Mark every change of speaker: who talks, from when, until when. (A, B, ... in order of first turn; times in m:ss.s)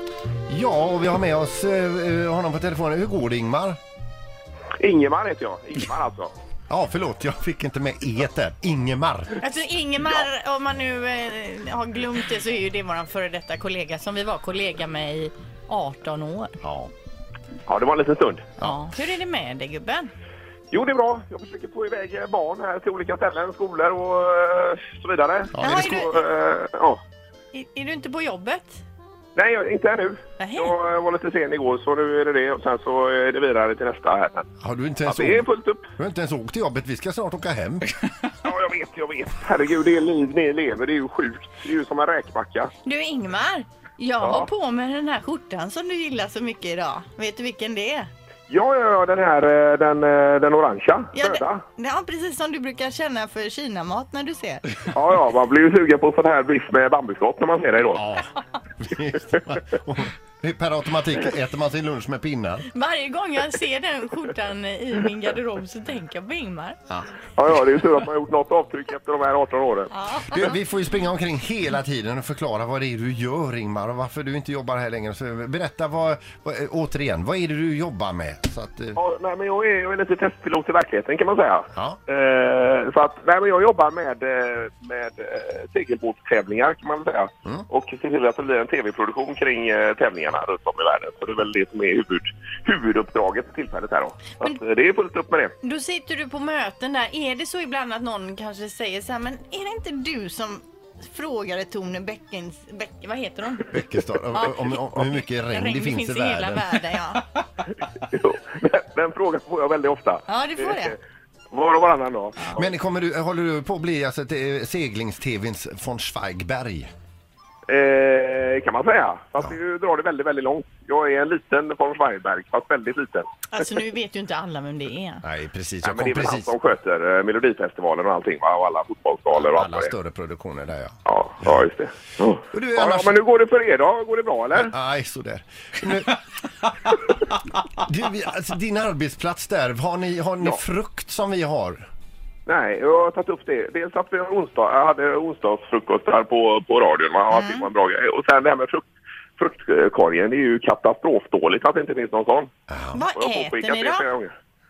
0:00.5-0:03.8 A
0:04.8-0:06.3 B
0:06.7-0:09.3 A
0:09.4-0:16.6 C
0:16.6-0:16.9 A
0:17.7-0:18.5 B
0:18.6-0:20.1 C
0:20.7-0:27.0 B
0:25.5-0:26.0 A
0:25.6-0:26.2 C
0:27.5-0:28.8 C
0:29.4-0:34.5 B
0:30.4-0:30.7 C
0:34.6-0:37.9 A
0:35.1-0:35.8 B
0:38.4-0:42.7 B
0:42.8-0:48.1 C
0:44.2-0:44.5 B
0:48.5-0:51.6 B
0:51.1-0:54.6 C
0:54.9-0:58.0 B
0:58.0-0:58.3 A
0:58.8-1:02.7 A
1:02.7-1:06.8 C
1:07.4-1:09.9 B
1:09.9-1:10.5 C
1:10.3-1:19.0 A
1:19.0-1:35.6 B
1:35.6-1:43.8 C
1:43.7-1:46.7 A
1:44.3-1:47.3 C
1:48.1-1:50.9 B
1:50.3-1:51.0 C
1:51.5-1:52.7 B
1:52.6-1:56.9 A
1:57.7-2:03.3 B
2:03.5-2:05.2 C
2:05.2-2:06.5 A
2:05.8-2:09.9 B
2:09.4-2:11.6 A
2:11.1-2:14.7 B
2:12.5-2:13.2 A
2:14.6-2:16.2 A
2:17.7-2:21.8 A
2:22.5-2:28.8 B
2:27.3-2:27.7 C
2:29.4-2:32.5 B
2:32.7-2:33.0 A
2:32.9-2:34.1 C
2:33.2-2:34.3 B